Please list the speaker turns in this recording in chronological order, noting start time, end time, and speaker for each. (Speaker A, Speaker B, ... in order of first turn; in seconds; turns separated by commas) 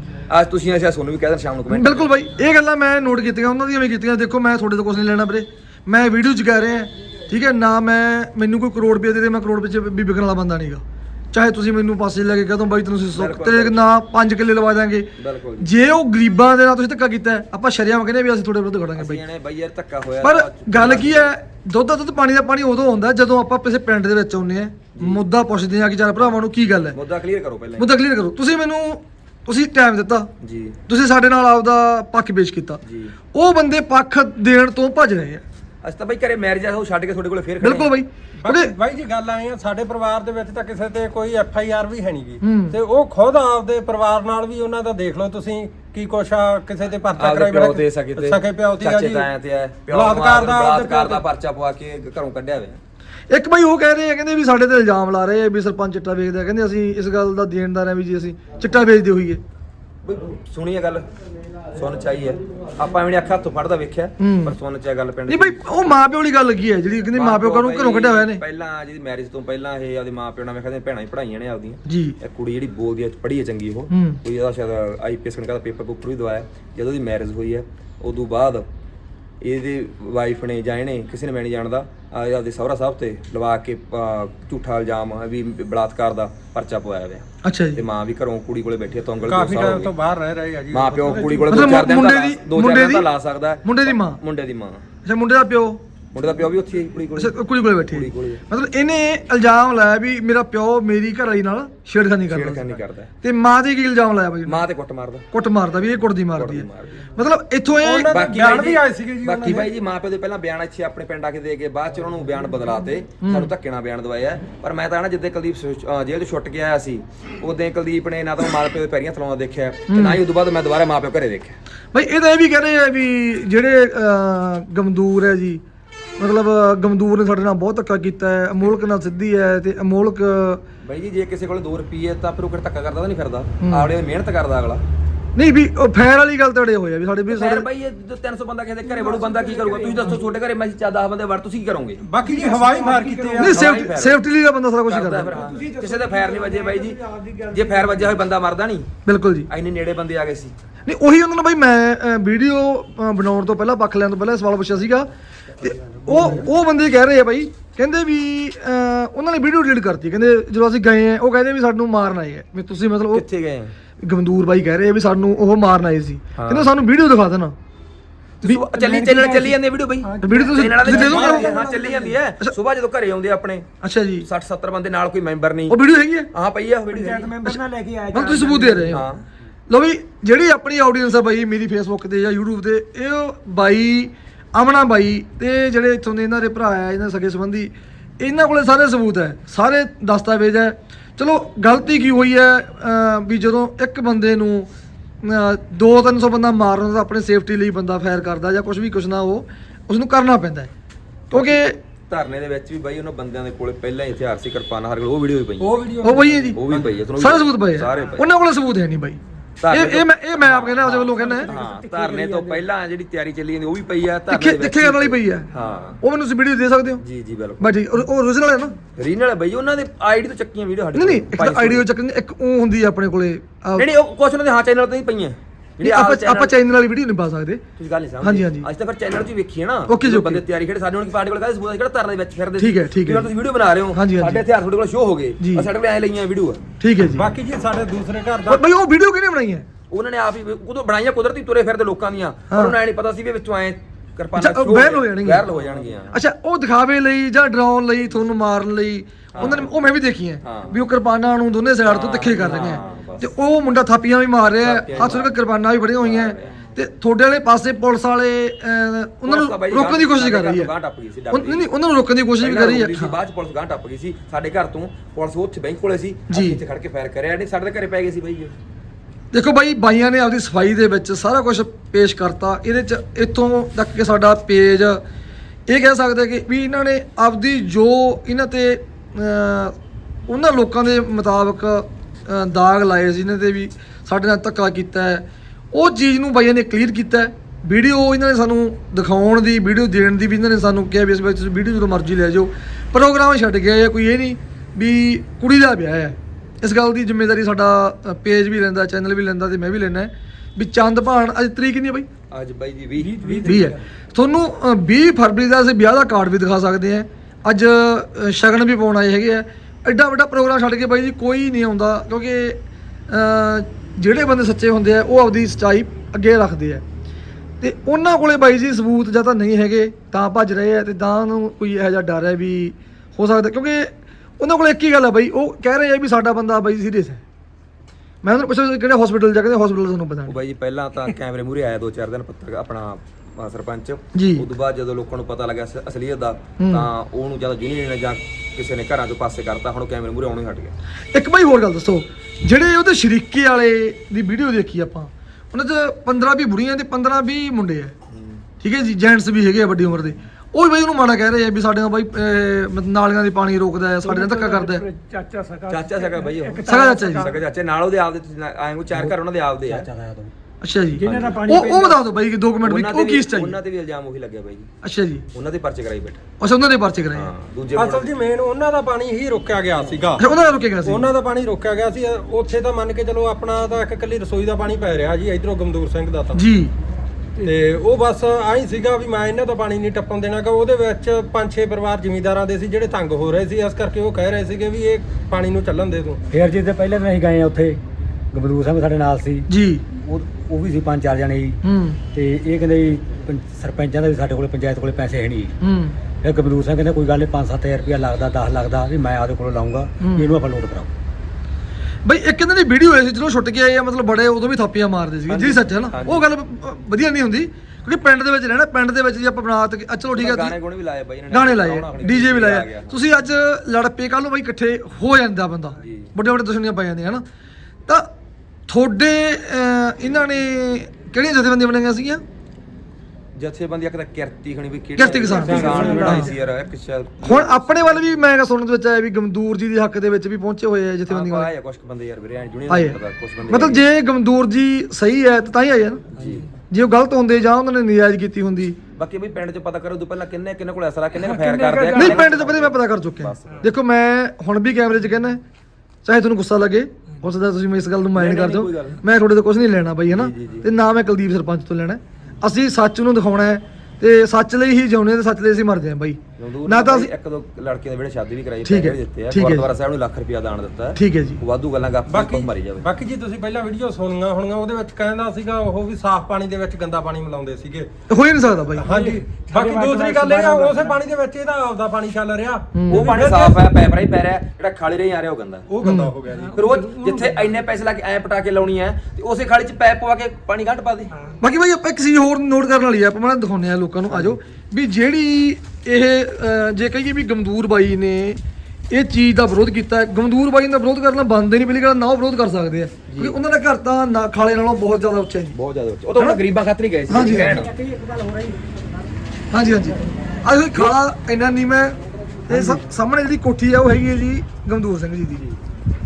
Speaker A: 0.3-2.1, Speaker B: 1.7-19.2, Speaker A: 13.1-13.9, Speaker A: 15.2-15.7, Speaker A: 19.0-21.3, Speaker B: 20.2-27.0, Speaker A: 24.9-25.2, Speaker A: 26.9-27.9, Speaker B: 27.8-30.3, Speaker A: 30.4-30.8, Speaker B: 30.9-32.8, Speaker A: 32.8-33.1, Speaker B: 33.3-35.4, Speaker A: 35.8-37.9, Speaker B: 37.6-38.7, Speaker C: 38.4-49.3, Speaker B: 42.4-42.8, Speaker A: 47.2-52.8, Speaker C: 49.9-51.2, Speaker B: 53.3-59.4, Speaker A: 60.0-61.1, Speaker A: 61.7-66.0, Speaker B: 64.2-64.6, Speaker B: 65.3-68.4, Speaker A: 67.1-78.7, Speaker B: 71.9-72.2, Speaker B: 73.9-74.2, Speaker A: 79.4-89.9, Speaker B: 87.4-87.8, Speaker C: 89.3-91.7, Speaker A: 90.7-94.8, Speaker B: 91.5-93.1, Speaker B: 93.6-94.2, Speaker B: 95.0-95.8, Speaker A: 96.1-98.4, Speaker B: 97.2-102.6, Speaker A: 102.3-103.1, Speaker B: 103.2-104.6, Speaker A: 104.5-105.3, Speaker B: 105.3-108.3, Speaker A: 106.3-107.1, Speaker C: 107.8-109.7, Speaker A: 108.1-121.6, Speaker B: 113.2-113.5, Speaker B: 119.9-120.2, Speaker B: 121.9-125.6, Speaker B: 126.2-130.6, Speaker A: 130.8-134.8, Speaker B: 133.6-133.9, Speaker B: 135.3-137.7, Speaker A: 137.3-142.0, Speaker D: 138.8-140.3, Speaker C: 142.0-143.7, Speaker D: 142.2-143.8, Speaker A: 143.4-144.2, Speaker B: 143.4-145.4, Speaker A: 144.9-147.0, Speaker D: 145.2-148.3, Speaker A: 147.5-148.9, Speaker B: 149.1-149.5, Speaker A: 149.5-150.5, Speaker B: 150.9-155.1, Speaker B: 155.6-163.2, Speaker A: 163.1-163.7, Speaker B: 164.0-167.6, Speaker A: 166.3-166.7, Speaker A: 168.4-173.7, Speaker B: 168.4-169.4, Speaker D: 168.9-172.2, Speaker B: 170.2-171.6, Speaker B: 173.8-174.3, Speaker A: 174.2-175.8, Speaker B: 175.7-176.3, Speaker A: 176.3-177.4, Speaker D: 176.9-179.0, Speaker B: 178.1-179.1, Speaker A: 178.9-179.2, Speaker B: 179.7-194.7, Speaker B: 195.2-200.7, Speaker B: 201.3-201.8, Speaker A: 201.3-205.9, Speaker C: 205.6-206.9, Speaker B: 206.0-206.6, Speaker A: 206.5-208.3, Speaker B: 207.2-209.2, Speaker A: 209.6-216.0, Speaker B: 209.7-211.5, Speaker D: 211.1-212.7, Speaker B: 214.3-215.5, Speaker B: 216.0-217.0, Speaker A: 217.0-217.8, Speaker B: 217.6-218.8, Speaker A: 219.0-221.9, Speaker B: 220.9-223.9, Speaker A: 223.8-226.6, Speaker B: 225.8-227.6, Speaker A: 227.8-236.6, Speaker B: 228.2-228.7, Speaker B: 229.9-230.4, Speaker B: 232.6-233.3, Speaker B: 233.9-234.4, Speaker B: 235.4-235.7, Speaker B: 236.8-237.3, Speaker C: 237.1-238.6, Speaker B: 238.5-239.7, Speaker A: 239.9-246.2, Speaker B: 242.5-242.8, Speaker B: 244.4-245.4, Speaker B: 246.1-260.7, Speaker A: 249.3-249.7, Speaker A: 250.4-250.8, Speaker A: 251.8-253.3, Speaker A: 254.6-255.3, Speaker A: 256.0-256.6, Speaker A: 259.2-261.7, Speaker B: 261.3-263.2, Speaker A: 262.4-268.5, Speaker B: 266.3-266.6, Speaker B: 269.3-275.0, Speaker B: 275.7-279.8, Speaker B: 280.3-302.1, Speaker A: 302.3-303.5, Speaker E: 303.0-303.8, Speaker D: 303.2-303.7, Speaker B: 303.4-316.8, Speaker B: 317.6-327.2, Speaker B: 328.2-330.4, Speaker A: 330.3-340.7, Speaker B: 334.1-334.5, Speaker B: 336.6-336.9, Speaker B: 341.1-347.9, Speaker A: 348.1-348.4, Speaker B: 348.6-354.9, Speaker D: 354.0-357.4, Speaker A: 355.7-359.9, Speaker B: 356.7-357.3, Speaker E: 358.9-360.3, Speaker B: 360.6-363.6, Speaker D: 361.0-362.0, Speaker E: 361.0-361.3, Speaker A: 362.6-364.7, Speaker B: 364.8-365.3, Speaker A: 365.3-366.2, Speaker B: 366.4-367.3, Speaker A: 367.1-368.1, Speaker C: 367.8-370.2, Speaker B: 370.2-371.1, Speaker C: 370.9-376.4, Speaker B: 376.3-376.7, Speaker C: 377.4-386.2, Speaker E: 386.3-387.8, Speaker E: 388.3-391.6, Speaker B: 389.5-389.8, Speaker B: 391.6-392.0, Speaker E: 392.1-395.6, Speaker B: 395.6-396.0, Speaker E: 396.2-400.9, Speaker B: 400.0-400.3, Speaker B: 402.1-410.6, Speaker A: 405.3-406.3, Speaker A: 410.1-413.0, Speaker B: 411.3-417.2, Speaker A: 415.8-416.1, Speaker B: 418.7-422.2, Speaker A: 423.4-428.0, Speaker B: 425.0-426.3, Speaker D: 425.3-426.3, Speaker E: 425.8-426.2, Speaker B: 427.2-431.5, Speaker A: 431.1-433.9, Speaker B: 432.7-436.1, Speaker A: 436.1-436.5, Speaker B: 436.7-438.8, Speaker A: 439.0-443.7, Speaker D: 441.2-442.4, Speaker B: 441.9-445.4, Speaker B: 446.0-457.1, Speaker A: 448.1-449.0, Speaker A: 450.1-450.7, Speaker A: 456.4-462.9, Speaker B: 458.6-459.7, Speaker B: 460.9-461.4, Speaker C: 462.1-467.9, Speaker B: 468.1-468.9, Speaker C: 468.7-473.6, Speaker D: 468.9-470.9, Speaker E: 469.6-470.8, Speaker B: 472.8-473.1, Speaker A: 472.9-475.7, Speaker C: 475.7-476.6, Speaker B: 475.8-476.2, Speaker D: 476.3-477.6, Speaker A: 476.6-481.1, Speaker B: 481.4-488.4, Speaker B: 488.9-495.6, Speaker A: 493.1-493.4, Speaker A: 495.5-497.7, Speaker B: 497.1-497.7, Speaker E: 497.1-498.6, Speaker B: 499.5-502.0, Speaker B: 502.5-505.4, Speaker E: 502.5-502.8